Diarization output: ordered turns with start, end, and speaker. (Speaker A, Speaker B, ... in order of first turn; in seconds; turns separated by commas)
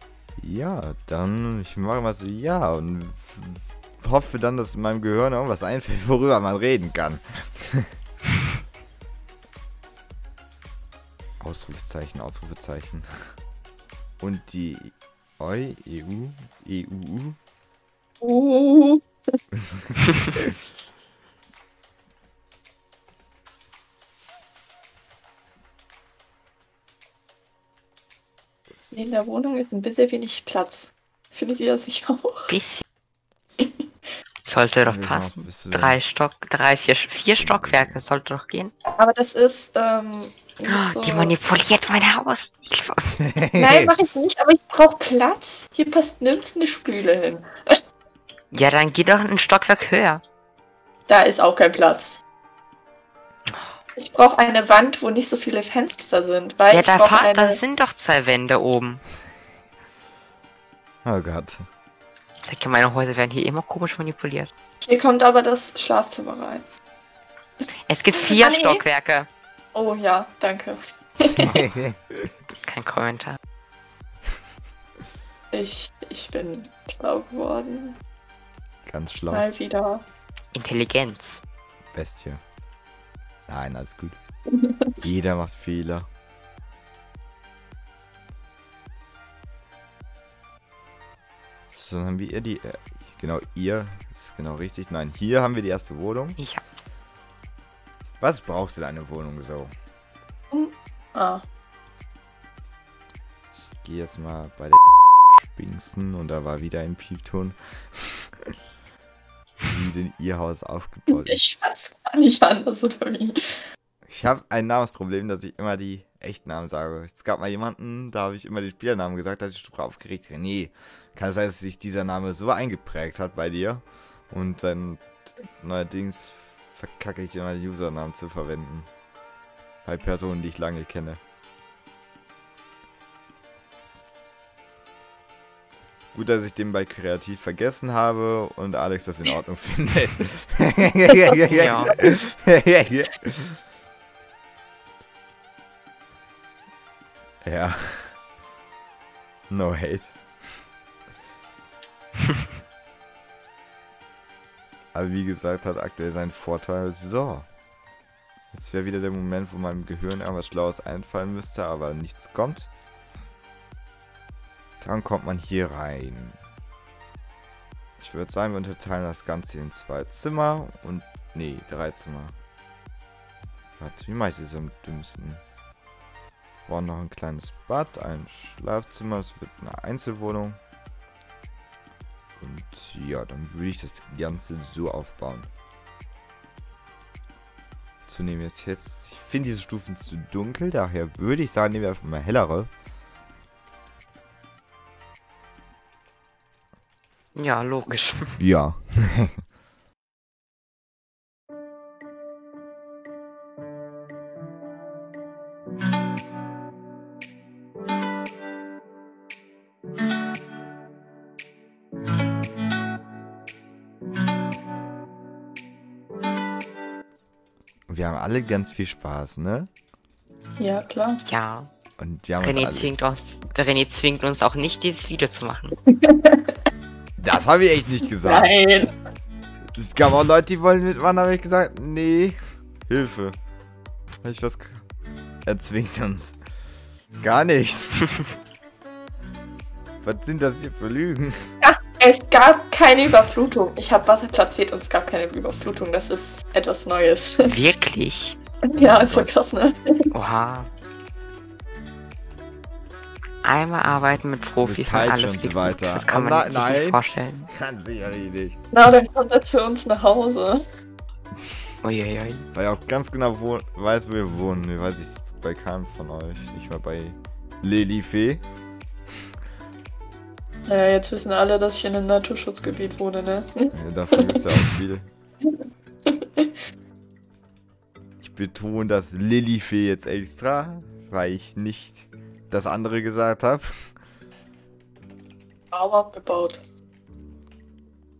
Speaker A: 0.4-7.9, Speaker A: 11.4-13.1, Speaker A: 14.2-17.4, Speaker B: 18.2-19.0, Speaker A: 19.5-20.5, Speaker A: 28.7-29.3, Speaker B: 28.9-32.5, Speaker C: 32.5-32.8, Speaker C: 34.5-38.7, Speaker A: 34.8-36.0, Speaker A: 37.4-38.0, Speaker B: 38.9-41.4, Speaker C: 40.6-43.1, Speaker A: 43.1-43.9, Speaker B: 43.6-47.7, Speaker C: 48.5-50.2, Speaker B: 51.1-52.2, Speaker C: 53.5-53.7, Speaker B: 54.0-57.6, Speaker C: 56.7-59.0, Speaker A: 61.0-61.6, Speaker C: 62.4-64.5, Speaker B: 64.8-66.6, Speaker C: 67.9-69.3, Speaker B: 68.2-68.8, Speaker B: 69.7-71.7, Speaker A: 71.2-72.3, Speaker C: 72.7-73.4, Speaker B: 75.5-78.0, Speaker A: 78.9-79.5, Speaker B: 79.3-80.1, Speaker C: 80.5-81.4, Speaker A: 81.9-82.4, Speaker A: 83.5-84.2, Speaker B: 84.5-84.9, Speaker A: 85.0-86.1, Speaker A: 91.7-96.4, Speaker C: 96.4-96.6, Speaker A: 98.2-99.7, Speaker B: 100.5-101.5, Speaker A: 103.5-104.8, Speaker A: 105.3-108.3, Speaker A: 109.6-111.6, Speaker B: 111.1-113.4, Speaker A: 114.1-128.9, Speaker A: 129.8-131.2, Speaker A: 136.1-143.6, Speaker C: 141.4-142.0, Speaker A: 147.4-148.1, Speaker A: 149.5-150.2, Speaker A: 154.9-157.5, Speaker A: 158.5-162.7, Speaker A: 164.8-166.4, Speaker A: 168.0-172.4, Speaker A: 173.8-175.4, Speaker A: 176.7-180.6, Speaker A: 182.4-185.5, Speaker A: 188.1-192.7, Speaker C: 197.3-198.4, Speaker A: 198.4-199.4, Speaker A: 217.9-219.7, Speaker B: 220.6-221.2, Speaker C: 221.2-221.7, Speaker A: 222.0-222.9, Speaker C: 222.4-225.8, Speaker B: 225.9-226.6, Speaker A: 227.2-228.5, Speaker B: 228.2-228.9, Speaker A: 229.8-233.4, Speaker A: 234.2-234.8, Speaker A: 235.5-236.4, Speaker A: 237.2-238.1, Speaker A: 240.0-241.5, Speaker B: 241.6-247.6, Speaker C: 247.4-248.4, Speaker B: 248.7-250.1, Speaker A: 248.8-249.3, Speaker C: 250.1-250.7, Speaker C: 253.4-257.5, Speaker A: 254.6-258.6, Speaker B: 258.7-260.6, Speaker C: 261.8-262.4, Speaker A: 262.5-268.4, Speaker B: 270.7-274.4, Speaker A: 273.7-275.1, Speaker B: 276.1-276.5, Speaker A: 278.2-283.7, Speaker B: 285.7-286.6